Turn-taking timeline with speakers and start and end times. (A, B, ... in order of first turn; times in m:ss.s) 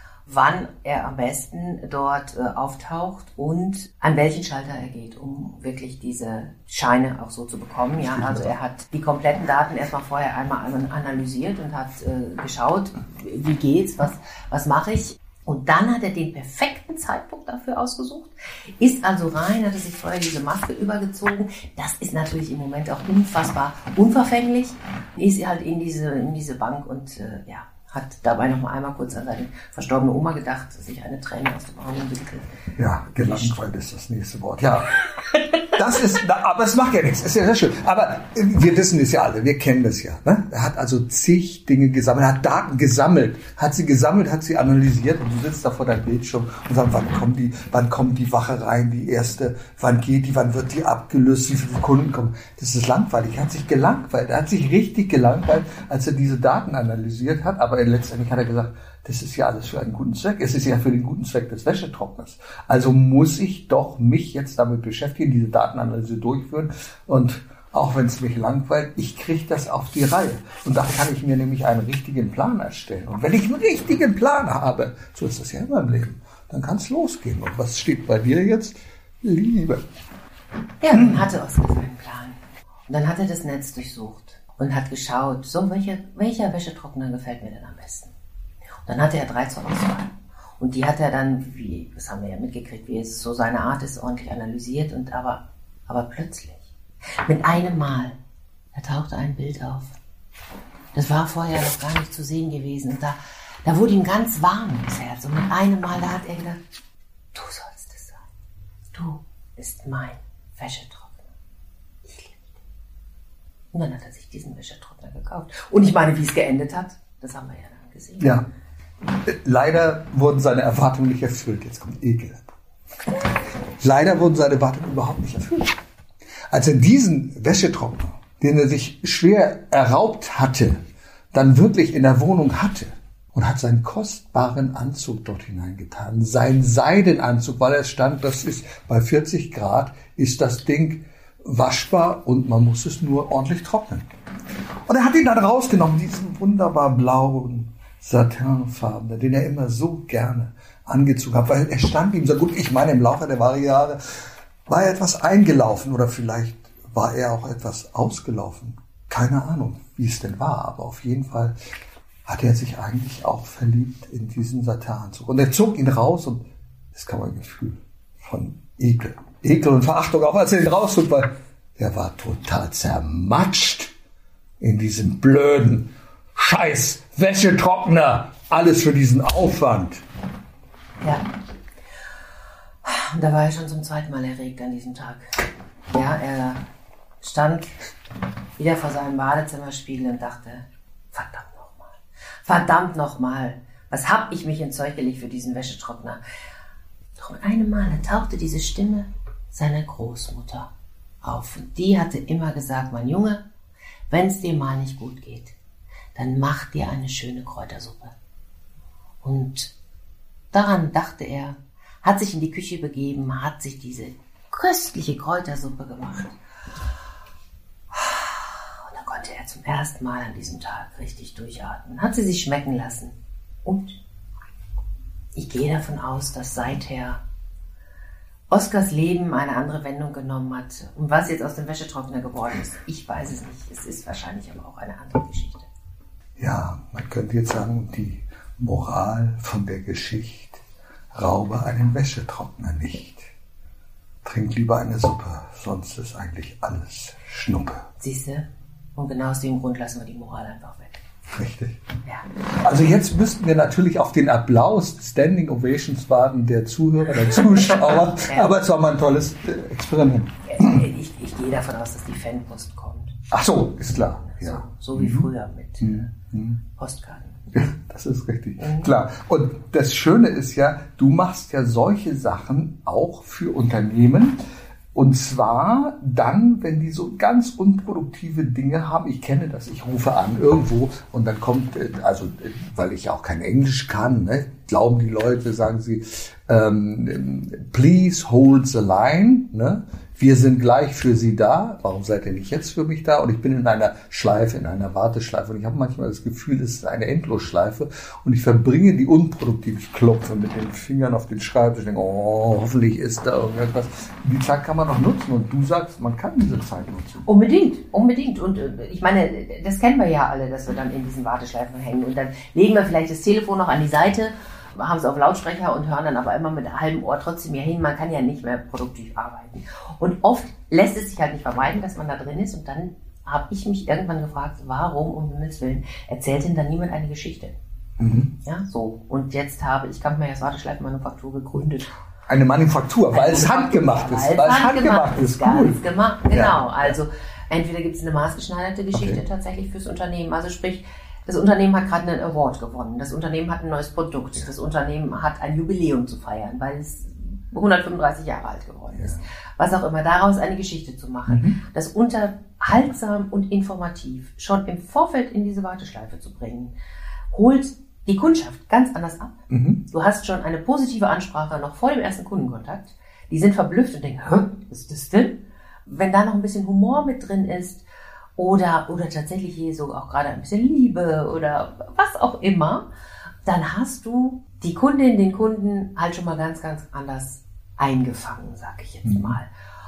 0:00.3-0:32.5 A
0:08.1-0:08.5 B
0:32.8-0:35.0 B
0:33.2-0:33.6 A
0:35.2-0:35.6 A
0:35.7-1:19.8 B
1:20.8-1:22.4 A
1:20.9-1:21.3 B
1:22.9-1:28.1 A
1:28.9-1:36.6 A
1:37.2-1:38.2 A
1:38.8-1:40.0 A
1:40.9-1:46.6 A
1:47.3-1:48.2 A
1:48.9-1:51.3 A
1:52.1-1:52.5 A
1:53.7-1:58.4 A
1:58.2-1:58.5 B
1:59.0-2:02.6 B
2:03.8-2:05.8 B
2:06.5-2:10.8 B
2:11.3-2:24.1 B
2:24.9-2:41.6 B
2:42.3-2:53.9 B
2:54.6-3:00.0 B
3:02.8-3:05.3 A
3:05.9-3:06.6 A
3:07.2-3:07.7 A
3:08.6-3:16.2 A
3:17.2-3:20.7 A
3:21.2-3:23.4 A
3:24.1-3:25.6 A
3:26.2-3:28.1 A
3:29.2-3:29.7 A
3:30.5-3:36.4 A
3:37.9-3:43.1 A
3:43.6-3:44.0 A
3:45.4-3:47.2 A
3:48.5-3:55.7 A
3:56.4-4:00.6 B
4:01.1-4:03.3 B
4:04.2-4:07.9 B
4:08.0-4:11.0 A
4:11.3-4:11.8 B
4:12.6-4:20.9 B
4:17.3-4:18.5 A
4:20.5-4:23.2 A
4:23.3-4:25.3 B
4:24.2-4:26.1 A
4:25.8-4:26.6 B
4:26.8-4:27.7 A
4:27.5-4:34.4 B
4:28.6-4:28.9 A
4:35.0-5:07.3 B
5:07.3-5:27.6 A
5:28.0-5:28.3 B
5:28.4-5:31.9 A
5:32.3-5:37.0 B
5:33.1-5:56.7 A
5:38.9-5:39.2 B
5:48.9-5:49.2 B
5:51.3-5:51.6 B
5:57.3-6:07.8 A
5:59.5-5:59.8 B
6:08.4-6:12.9 A
6:13.4-6:19.5 A
6:19.0-6:19.4 B